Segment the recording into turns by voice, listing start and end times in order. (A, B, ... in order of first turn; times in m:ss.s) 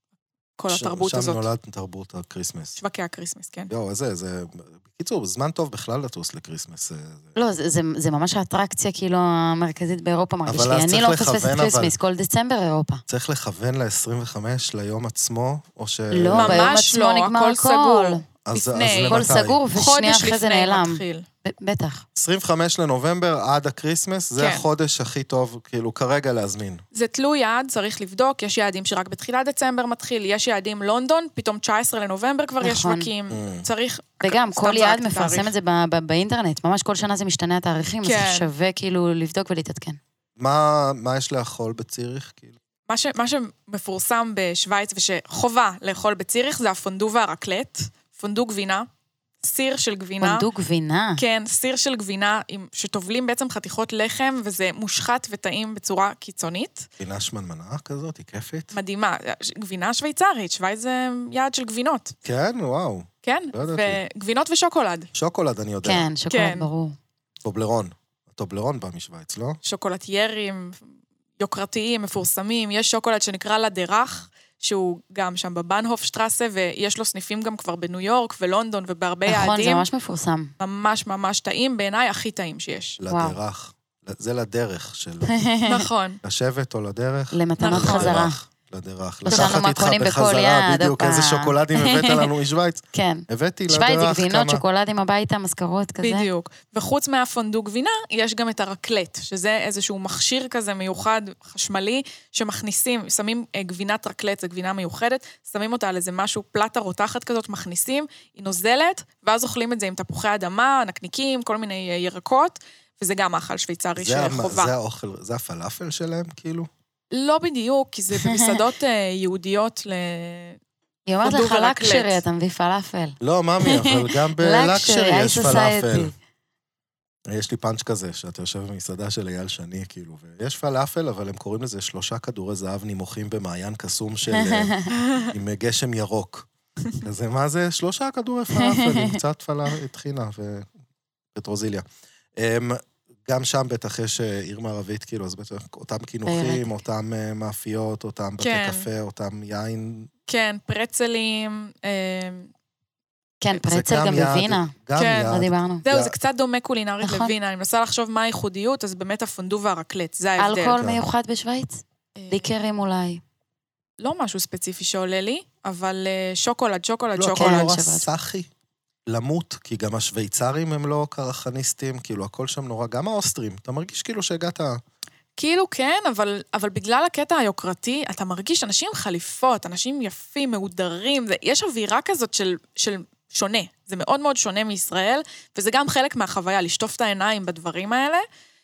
0:00.6-0:01.5 A
0:00.7-0:02.8 B
0:02.8-0:03.7 A
0:03.7-0:07.4 B
0:07.4-0:13.0 C
0:10.5-0:11.9 B
0:13.1-0:16.7 B
0:16.1-0:18.2 C
0:16.3-0:21.2 A
0:18.5-0:19.6 B
0:19.0-0:22.0 C
0:22.2-0:26.8 B
0:24.4-0:24.6 A
0:26.9-0:35.5 A
0:32.6-0:33.1 C
0:33.3-0:33.7 B
0:34.2-0:40.0 C
0:38.0-0:38.5 A
0:40.4-0:42.6 B
0:42.9-0:48.9 A
0:49.4-0:50.5 A
0:50.2-0:51.2 C
0:51.2-0:56.9 A
0:57.0-0:58.8 B
0:58.7-1:02.2 A
1:02.2-1:04.0 B
1:03.2-1:05.1 A
1:05.1-1:06.1 B
1:05.8-1:07.0 C
1:06.3-1:06.7 A
1:07.4-1:09.6 B
1:09.6-1:10.9 A
1:11.4-1:19.9 A
1:19.3-1:20.5 C
1:20.6-1:23.0 A
1:23.0-1:25.4 B
1:23.1-1:23.4 C
1:25.3-1:25.9 C
1:25.7-1:26.2 A
1:26.2-1:34.6 B
1:27.3-1:28.4 C
1:27.6-1:28.2 A
1:29.3-1:29.6 A
1:29.3-1:32.3 C
1:32.9-1:36.3 C
1:36.0-1:54.7 A
1:54.0-1:56.7 B
1:57.1-2:00.6 A
1:58.2-1:58.6 C
2:01.1-2:06.1 C
2:01.2-2:02.2 A
2:03.2-2:06.1 B
2:07.3-2:16.5 B
2:14.3-2:14.9 C
2:14.9-2:15.3 A
2:17.0-2:20.7 B
2:18.6-2:19.2 C
2:21.4-2:21.8 B
2:22.4-2:30.1 B
2:26.3-2:26.7 C
2:28.4-2:28.9 A
2:30.3-2:32.5 A
2:33.4-2:34.8 C
2:33.6-2:36.1 B
2:35.0-2:40.8 A
2:35.3-2:35.8 C
2:37.0-2:37.3 C
2:40.4-2:43.2 C
2:40.8-2:41.0 B
2:42.2-2:42.5 A
2:44.0-2:47.8 A
2:47.2-2:48.5 B
2:47.3-2:48.1 C
2:49.1-2:54.8 B
2:55.4-3:08.2 A